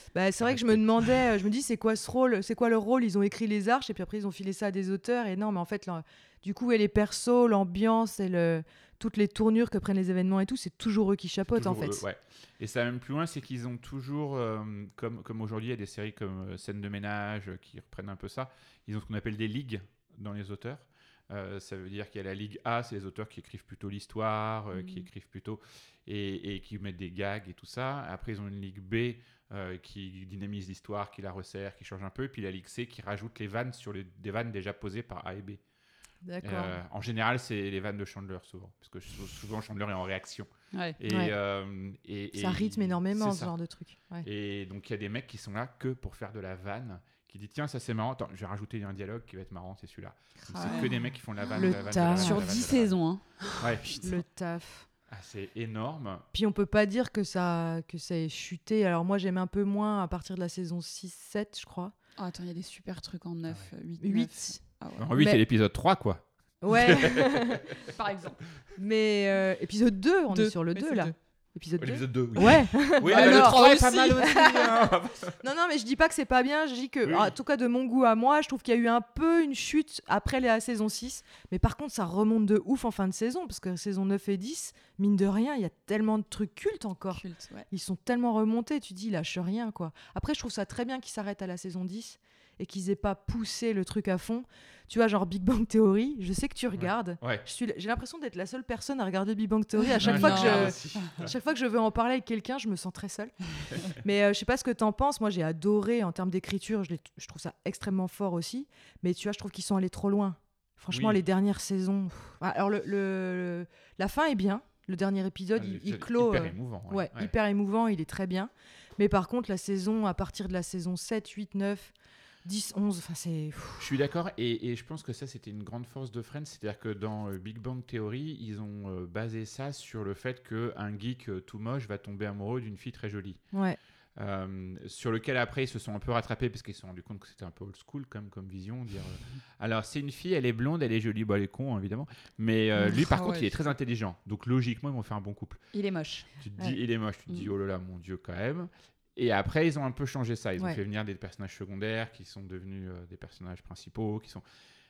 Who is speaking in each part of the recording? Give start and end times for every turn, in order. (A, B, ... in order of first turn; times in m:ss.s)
0:00.1-0:12.0 A
0:00.4-0:01.2 B
0:11.5-0:35.6 B
0:24.7-0:25.0 C
0:36.2-0:36.8 A
0:36.4-0:43.5 B
0:41.1-0:41.3 A
0:42.3-0:44.3 A
0:44.2-0:53.0 B
0:50.4-0:50.9 C
0:50.6-0:50.9 A
0:51.5-0:54.1 C
0:51.5-0:52.7 A
0:53.6-0:54.0 B
0:53.9-0:54.9 A
0:55.1-0:56.2 B
0:56.3-1:01.9 A
1:02.2-1:05.1 C
1:04.0-1:04.6 A
1:05.0-1:07.7 B
1:05.1-1:05.4 A
1:06.6-1:07.7 A
1:07.9-1:08.4 C
1:08.8-1:43.3 A
1:10.3-1:11.1 C
1:11.8-1:15.4 B
1:13.0-1:14.4 C
1:17.0-1:17.4 B
1:27.1-1:27.7 C
1:36.7-1:37.4 B
1:39.9-1:41.1 C
1:40.0-1:41.3 B
1:43.9-2:01.9 A
1:50.9-1:51.2 B
1:55.5-1:57.3 B
2:02.4-2:03.9 A
2:03.8-2:13.4 B
2:13.5-2:13.8 A
2:14.2-2:25.6 B
2:22.8-2:23.6 C
2:25.7-2:26.3 C
2:26.4-2:34.4 B